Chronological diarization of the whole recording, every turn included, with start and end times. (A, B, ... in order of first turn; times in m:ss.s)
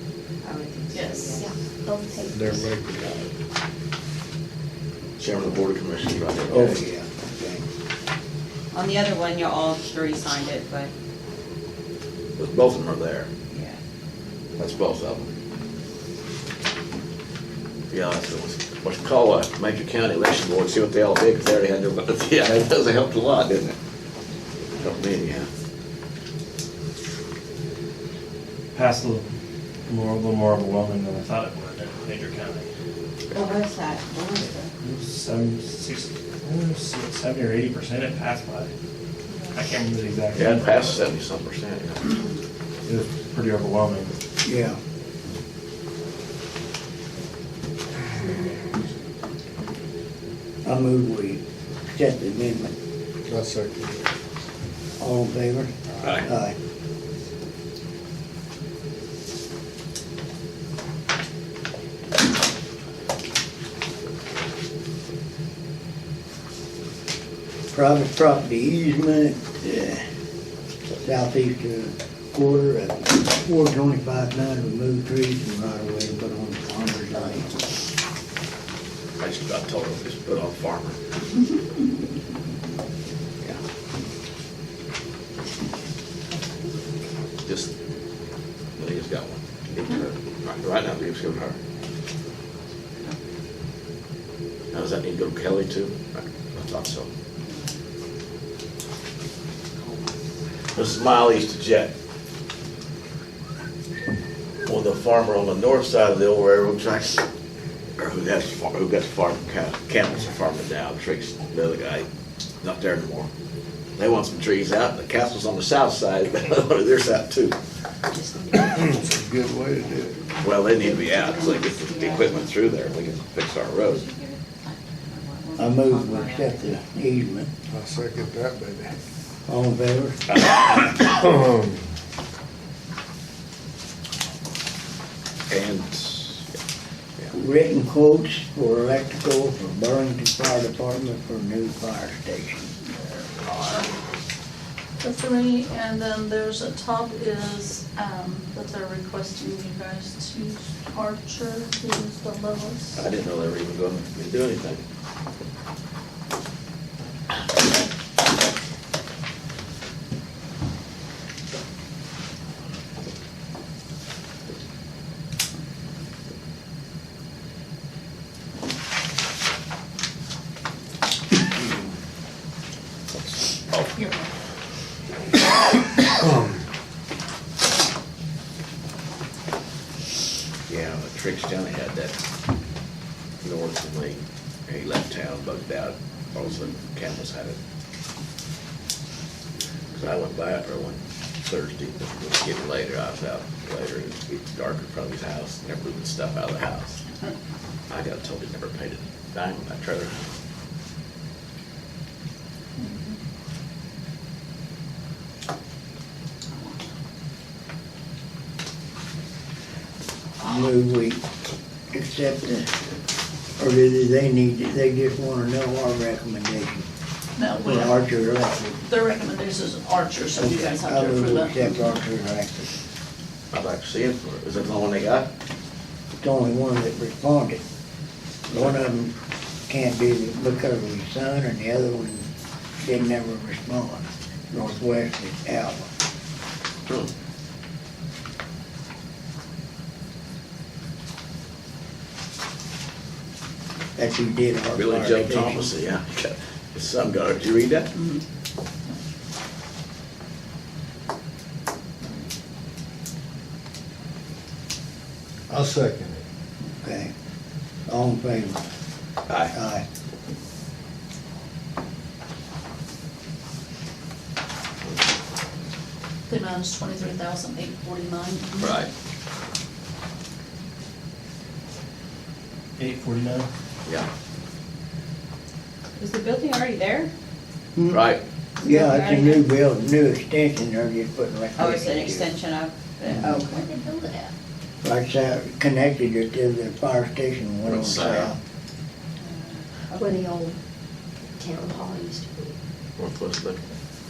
0:00.4-0:01.5 A
0:00.9-0:01.3 B
0:01.3-0:02.6 C
0:02.3-0:03.1 D
0:05.2-0:06.8 E
0:06.5-0:07.7 F
0:08.7-0:10.9 A
0:12.4-0:13.3 E
0:13.5-0:13.8 A
0:14.6-0:15.3 E
0:17.9-0:23.8 E
0:24.8-0:25.5 E
0:28.7-0:29.3 G
0:29.9-0:32.7 G
0:33.3-0:34.7 A
0:34.8-0:38.7 G
0:39.5-0:40.9 G
0:40.3-0:42.2 E
0:42.9-0:44.1 G
0:44.4-0:44.8 F
0:48.1-0:48.7 C
0:50.6-0:51.4 F
0:51.9-0:52.7 F
0:53.3-0:54.1 D
0:55.0-0:56.6 F
0:56.0-0:56.3 E
1:07.7-1:10.0 F
1:11.0-1:17.6 F
1:19.2-1:21.0 E
1:27.4-1:27.7 E
1:28.8-1:31.6 E
1:34.7-1:37.1 E
1:40.8-1:41.9 E
1:44.6-1:47.2 E
1:48.0-1:52.1 E
1:52.6-1:53.3 E
1:54.0-1:57.6 E
1:58.1-2:03.1 C
1:58.7-2:00.2 D
2:00.4-2:04.0 E
2:03.8-2:06.6 A
2:05.6-2:07.5 F
2:07.7-2:08.9 D
2:09.5-2:10.2 F
2:10.3-2:11.0 E
2:11.1-2:11.8 D
2:15.5-2:16.4 E
2:17.3-2:22.7 F
2:22.8-2:23.9 B
2:23.5-2:23.9 E
2:25.0-2:33.0 B
2:33.0-2:34.8 E
3:00.7-3:02.2 E
3:03.4-3:07.6 E
3:09.9-3:17.0 E
3:17.9-3:20.3 E
3:22.8-3:23.2 B
3:30.4-3:31.2 F
3:31.9-3:32.7 F
3:33.6-3:36.9 F
3:37.4-3:38.0 B
3:37.6-3:38.8 F
3:38.8-3:41.7 B
3:40.4-3:42.7 F
3:43.5-3:45.3 E
3:46.2-3:47.6 F
3:48.5-3:49.1 F
3:49.7-3:52.3 F
3:52.8-3:55.9 F
4:04.0-4:05.7 F
4:04.7-4:07.9 E
4:15.5-4:16.2 D
4:16.8-4:17.1 F
4:17.9-4:18.6 F
4:19.5-4:19.8 F
4:26.3-4:28.8 B
4:28.6-4:28.9 E
4:32.8-4:33.5 G
4:36.0-4:37.1 A
4:37.8-4:38.0 F
4:37.9-4:38.2 E
4:38.6-4:39.4 A
4:38.6-4:42.3 F
4:41.6-4:43.7 A
4:43.3-4:44.3 C
4:44.8-4:48.4 F
4:47.6-4:48.3 E
4:49.2-4:50.2 A
4:50.0-4:50.6 C
4:51.4-4:52.5 C
4:53.0-4:53.6 E